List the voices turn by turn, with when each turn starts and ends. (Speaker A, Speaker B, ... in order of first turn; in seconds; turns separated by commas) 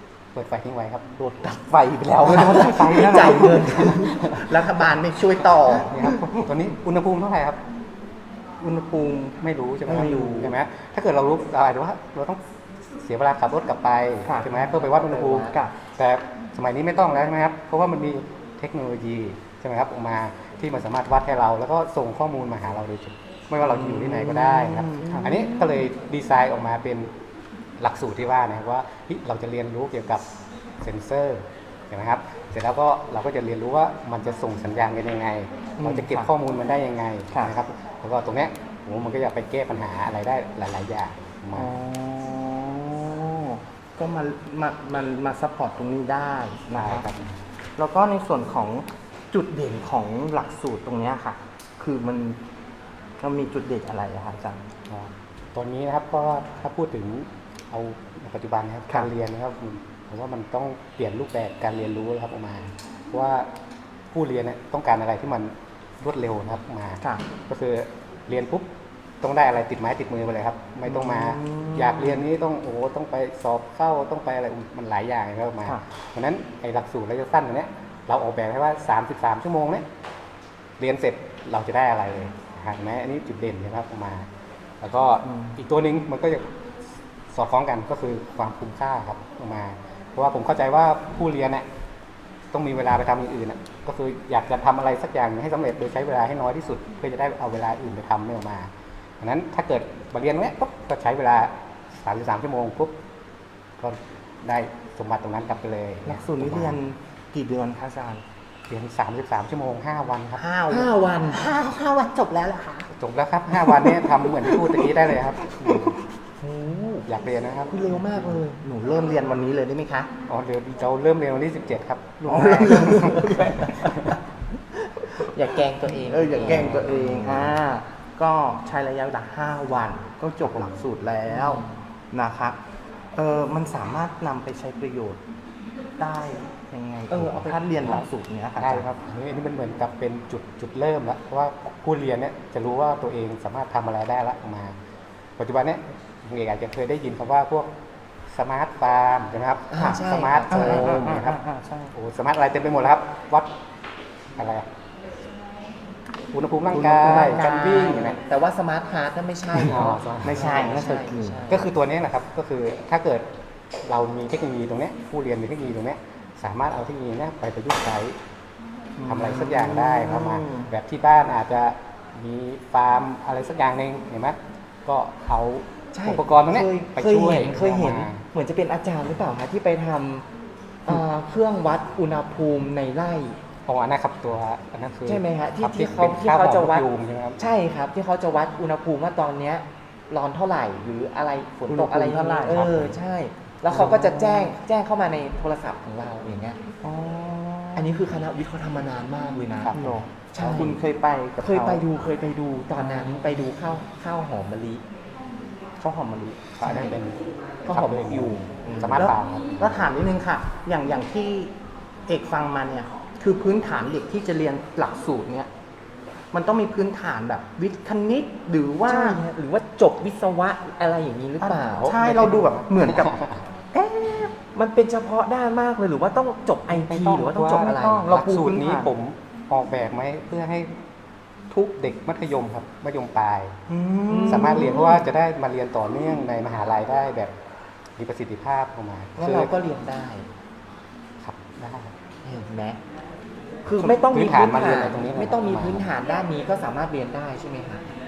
Speaker A: 0.3-1.1, Speaker B: 1.2-6.5, Speaker A: 2.2-2.7, Speaker C: 2.7-4.4, Speaker A: 5.7-7.6, Speaker B: 8.6-10.5, Speaker A: 9.4-12.4, Speaker A: 13.0-27.1, Speaker B: 14.2-15.7, Speaker C: 14.6-15.5, Speaker B: 23.6-25.4, Speaker C: 25.0-25.5, Speaker A: 27.8-30.2, Speaker A: 30.8-41.8, Speaker B: 35.8-36.3, Speaker B: 41.5-47.0, Speaker A: 46.8-47.4, Speaker B: 47.8-52.4, Speaker B: 53.2-54.7, Speaker A: 54.9-63.5, Speaker A: 64.1-68.7, Speaker A: 69.2-79.8, Speaker B: 70.8-72.2, Speaker A: 80.8-84.3, Speaker A: 84.8-86.5, Speaker B: 85.2-85.5, Speaker A: 87.3-91.7, Speaker A: 92.5-102.9, Speaker A: 103.8-106.8, Speaker B: 106.0-108.2, Speaker A: 108.7-110.4, Speaker B: 110.4-112.9, Speaker C: 110.7-111.4, Speaker A: 112.9-116.0, Speaker B: 113.5-116.0, Speaker C: 116.4-117.0, Speaker A: 117.0-117.7, Speaker C: 117.7-118.6, Speaker B: 118.6-120.1, Speaker A: 120.3-124.2, Speaker B: 122.2-124.0, Speaker C: 122.6-124.2, Speaker C: 124.7-127.5, Speaker B: 126.0-132.6, Speaker C: 131.3-131.8, Speaker B: 133.1-135.2, Speaker B: 136.0-138.9, Speaker C: 137.1-138.0, Speaker A: 138.6-144.7, Speaker A: 145.4-147.7, Speaker A: 148.3-151.4, Speaker C: 149.7-151.0, Speaker B: 149.8-151.9, Speaker A: 151.9-153.5, Speaker A: 154.3-154.7, Speaker A: 156.3-158.2, Speaker B: 156.7-158.1, Speaker C: 157.0-161.7, Speaker A: 159.6-160.8, Speaker B: 160.2-161.4, Speaker A: 161.5-163.3, Speaker A: 163.8-168.2, Speaker B: 169.0-170.7, Speaker A: 169.1-178.2, Speaker C: 175.9-180.2, Speaker C: 180.8-183.4, Speaker A: 183.7-187.4, Speaker C: 185.1-186.8, Speaker C: 187.4-196.6, Speaker B: 191.7-192.9, Speaker B: 193.7-194.6, Speaker B: 196.8-197.9, Speaker C: 197.8-200.8, Speaker A: 199.6-199.9, Speaker B: 199.7-201.8, Speaker C: 201.4-204.8, Speaker B: 202.8-203.4, Speaker B: 205.8-206.9, Speaker A: 206.6-209.6, Speaker C: 206.6-207.0, Speaker C: 207.7-209.2, Speaker B: 208.8-211.5, Speaker B: 212.1-215.5, Speaker B: 216.3-219.2, Speaker C: 218.9-222.5, Speaker B: 221.4-223.1, Speaker A: 222.2-223.4, Speaker C: 223.7-228.2, Speaker A: 226.7-230.8, Speaker B: 227.7-228.9, Speaker A: 231.5-233.6, Speaker B: 233.7-235.0, Speaker C: 234.1-235.0, Speaker A: 234.3-237.3, Speaker A: 238.0-239.5, Speaker C: 239.2-240.3, Speaker A: 241.2-241.9, Speaker C: 242.2-242.8, Speaker C: 243.6-247.8, Speaker A: 244.0-245.9